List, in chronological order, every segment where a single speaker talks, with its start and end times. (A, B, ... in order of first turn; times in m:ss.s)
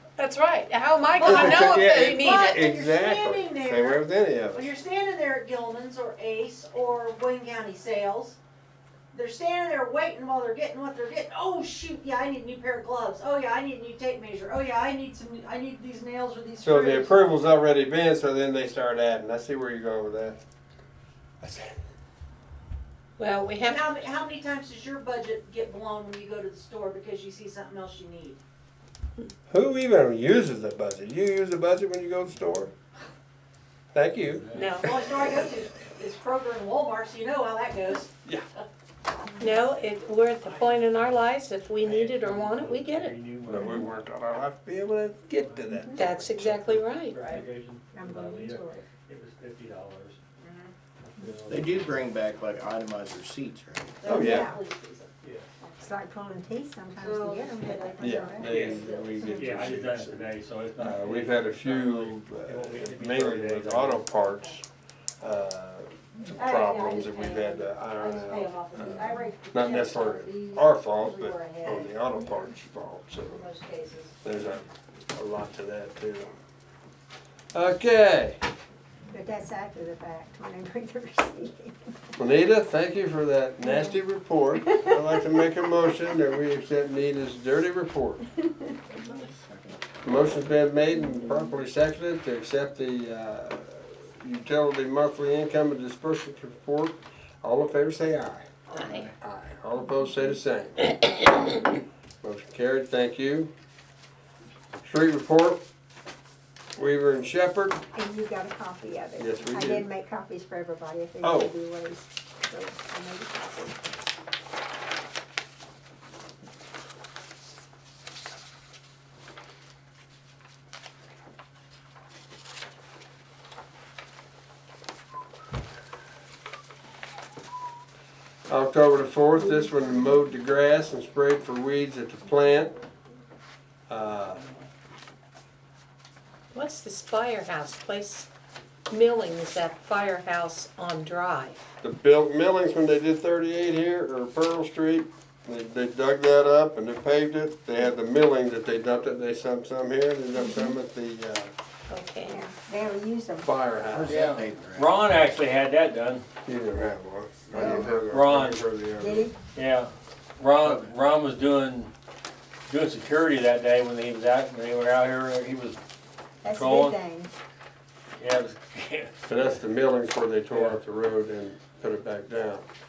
0:00.2-0:02.6 A
0:01.1-0:08.4 B
0:01.2-0:04.7 C
0:09.1-0:17.2 B
0:16.6-0:20.4 C
0:21.4-0:21.7 C
0:23.2-0:23.8 A
0:23.6-0:28.4 B
0:29.5-0:32.7 C
0:33.9-0:34.5 C
0:34.3-0:34.8 D
0:34.5-0:34.9 A
0:34.8-0:38.1 B
0:39.4-0:43.2 A
0:41.8-0:44.0 D
0:43.5-0:46.7 C
0:45.7-0:46.1 E
0:46.0-0:47.3 A
0:46.5-0:50.2 D
0:47.2-0:47.5 B
0:47.9-0:48.9 E
0:50.4-0:50.7 B
0:51.1-0:52.1 D
0:51.5-0:54.0 F
0:54.0-0:55.1 B
0:54.0-0:54.5 C
0:54.1-0:54.6 E
0:55.2-0:55.5 D
0:55.6-0:59.5 E
0:57.0-0:59.5 B
0:58.0-1:04.6 C
0:58.5-1:04.2 D
1:04.2-1:04.6 B
1:05.2-1:13.5 C
1:06.4-1:12.5 B
1:13.2-1:14.3 B
1:14.2-1:16.3 C
1:17.5-1:18.4 C
1:19.1-1:21.9 E
1:22.2-1:28.2 C
1:23.6-1:24.0 E
1:24.7-1:25.6 E
1:28.9-1:29.8 F
1:30.0-1:38.5 C
1:38.7-1:39.1 F
1:39.2-1:40.9 C
1:42.2-1:43.5 C
1:44.8-1:45.6 C
1:46.8-1:47.8 C
1:47.9-1:53.8 E
1:49.2-1:49.9 C
1:51.2-1:51.5 C
2:08.5-2:12.8 C
2:09.4-2:10.1 E
2:13.9-2:14.5 C
2:16.5-2:18.3 A
2:18.9-2:21.6 A
2:21.8-2:31.5 C
2:30.4-2:30.7 E
2:31.9-2:32.4 A
2:32.3-2:33.5 E
2:33.4-2:34.3 C
2:33.9-2:35.0 F
2:34.1-2:36.2 D
2:36.4-2:39.3 C
2:37.5-2:38.0 E
2:37.7-2:38.6 D
2:39.0-2:39.4 E
2:39.6-2:41.9 D
2:42.7-2:45.8 D
2:46.4-2:47.3 E
2:46.5-2:47.0 D
2:48.2-2:49.6 D
2:49.3-2:52.6 C
2:50.5-2:50.8 D